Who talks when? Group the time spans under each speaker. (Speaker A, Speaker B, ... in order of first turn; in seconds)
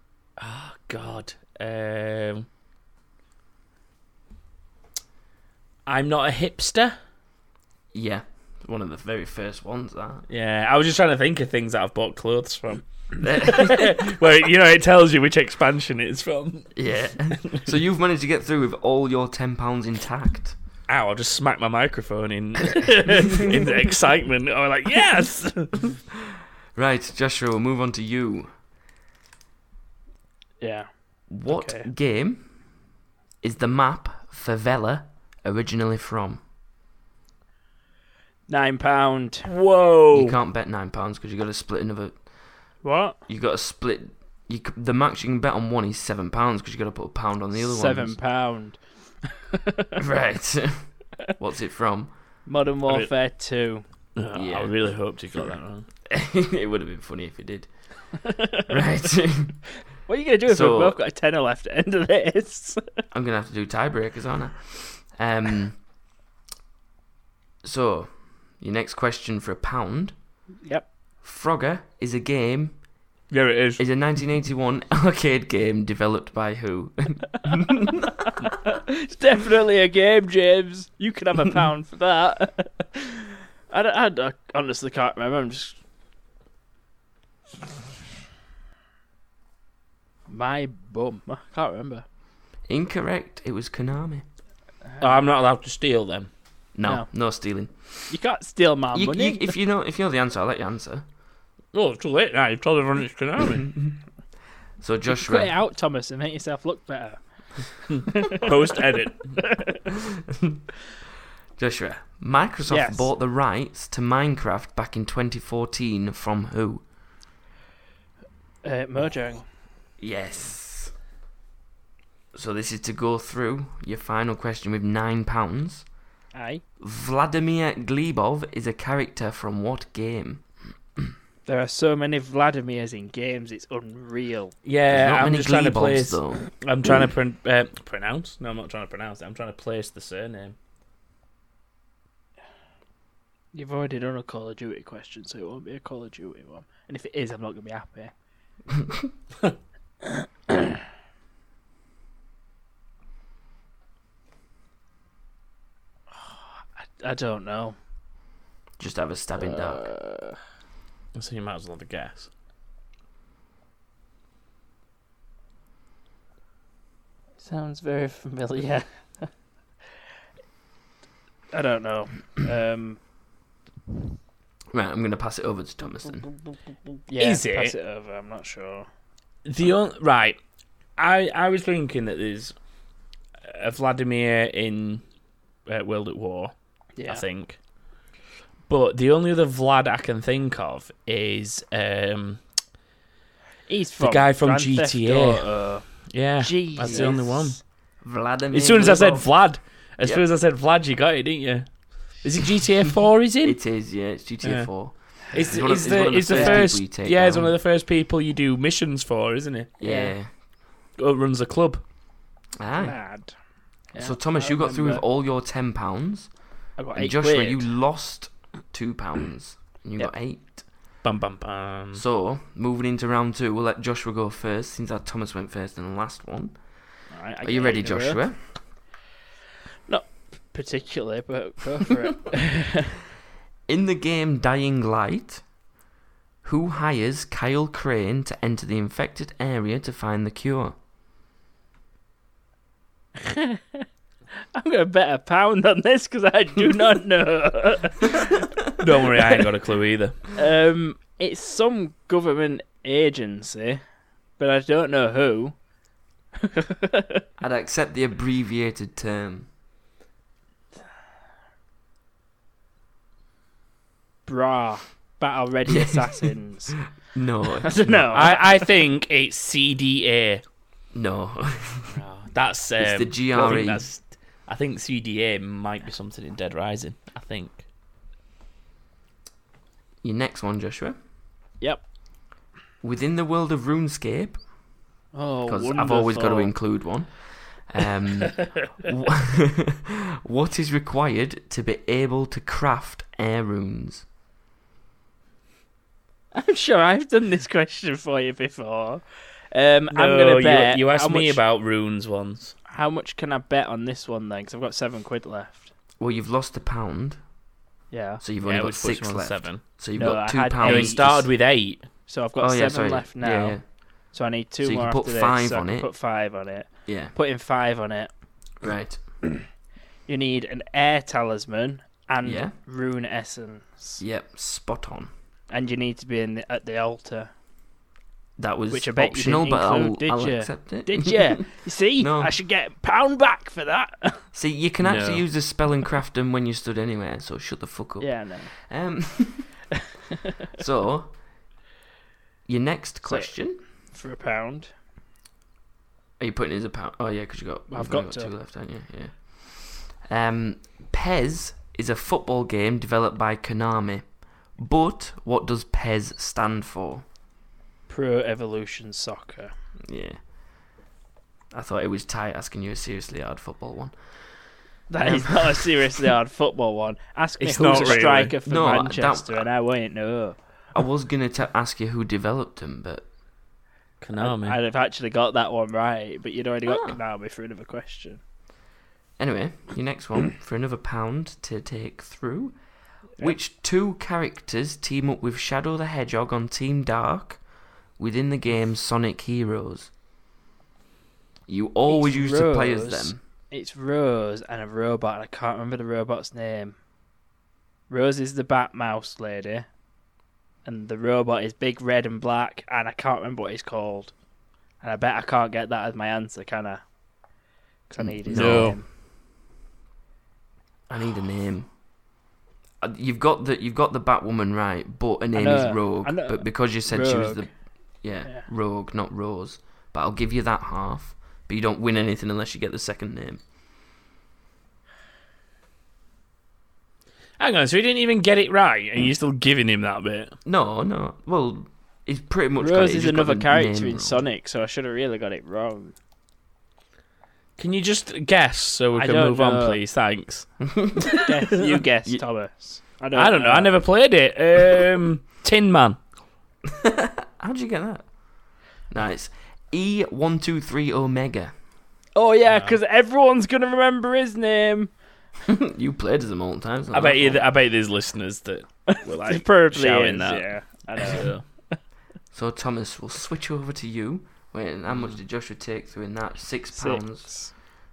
Speaker A: 0.4-2.5, 5.9-7.0, 10.3-16.7, 17.4-17.6, 20.9-25.9, 39.5-40.4, 54.1-55.9, 73.3-73.8, 95.0-96.3, 101.7-103.7, 107.9-109.4, 134.6-140.6, 161.1-162.3, 177.2-177.7, 179.4-180.4, 181.0-182.5, 183.4-185.0, 185.7-186.5, 187.1-187.6, 188.7-192.4, 194.0-195.5, 196.1-197.6, 198.5-201.7, 202.2-203.6, 204.4-204.7, 205.3-209.7, 211.0-211.8, 221.0-222.0, 248.8-250.2, 268.1-270.4, 271.9-277.6, 299.9-302.5, 308.4-309.6, 310.6-311.9, 334.8-335.2, 367.4-368.4, 374.0-374.6, 408.3-408.8, 427.4-430.4, 437.6-440.5, 443.1-446.0, 452.5-452.8, 456.9-461.4
Speaker B: 7.9-10.2, 13.2-14.2, 16.7-20.6, 26.2-28.5, 31.3-32.5, 33.4-36.4, 40.1-42.2, 43.3-48.1, 50.0-52.1, 54.3-54.7, 56.1-57.7, 58.7-59.6, 60.5-61.0, 63.1-65.8, 67.6-70.1, 71.2-72.8, 73.8-78.5, 92.7-94.2, 96.7-98.1, 98.9-101.0, 103.7-103.9, 104.8-105.5, 110.3-110.6, 111.6-116.8, 120.0-120.9, 122.3-125.8, 126.8-130.4, 134.9-136.4, 158.8-159.9, 174.7-176.3, 198.0-199.3, 203.4-207.5, 209.8-210.3, 212.6-212.9, 214.0-216.3, 216.9-220.6, 221.9-226.6, 227.4-228.4, 233.7-235.4, 236.4-240.8, 257.4-259.5, 265.7-266.3, 267.1-268.2, 270.9-272.0, 272.8-273.9, 280.0-281.0, 282.8-284.4, 285.4-294.1, 306.0-307.2, 308.2-311.3, 312.4-313.6, 314.6-315.9, 316.9-317.1, 318.6-319.0, 322.2-322.5, 324.0-325.1, 328.4-331.4, 332.0-332.3, 334.3-339.5, 340.6-341.1, 342.5-343.6, 346.2-354.0, 354.6-357.0, 359.9-360.2, 361.5-363.9, 365.0-366.1, 367.8-369.4, 370.7-373.1, 376.7-377.0, 379.2-382.6, 383.2-387.4, 388.0-389.9, 391.5-393.2, 408.0-408.8, 410.9-411.7, 412.8-417.5, 418.0-423.4, 430.4-434.2, 440.6-441.1, 446.7-448.0, 448.9-451.5, 455.4-457.4, 462.3-467.4
Speaker C: 30.6-30.9, 31.5-31.9, 38.5-39.5, 42.8-43.2, 47.5-50.0, 52.5-53.8, 58.2-58.8, 60.1-62.8, 78.3-85.8, 90.3-92.0, 94.9-95.2, 98.1-99.5, 105.1-109.9, 112.7-113.1, 118.6-119.4, 126.3-126.6, 131.4-134.5, 143.5-148.1, 150.0-150.7, 156.1-157.8, 159.4-160.4, 167.4-169.3, 171.5-173.0, 177.1-178.9, 186.9-187.2, 193.7-197.6, 206.1-206.7, 209.8-210.1, 212.7-213.3, 213.9-215.0, 216.8-217.7, 227.1-228.2, 229.9-233.0, 243.2-243.8, 244.5-248.5, 250.3-253.8, 254.4-255.5, 256.4-257.2, 264.2-266.9, 267.5-268.7, 285.1-286.6, 296.3-301.4, 302.7-305.7, 307.9-308.2, 309.9-311.2, 312.1-313.6, 314.1-318.1, 320.1-324.0, 325.5-327.3, 328.7-334.2, 338.0-338.5, 343.0-343.4, 343.9-344.7, 347.7-348.3, 357.9-359.5, 364.9-370.4, 374.2-378.2, 391.9-396.8, 397.9-399.7, 400.6-404.1, 404.8-406.8, 407.9-408.9, 415.4-417.5, 432.6-435.9, 438.9-439.8, 441.1-443.8, 452.1-454.9, 458.9-461.8, 466.8-467.5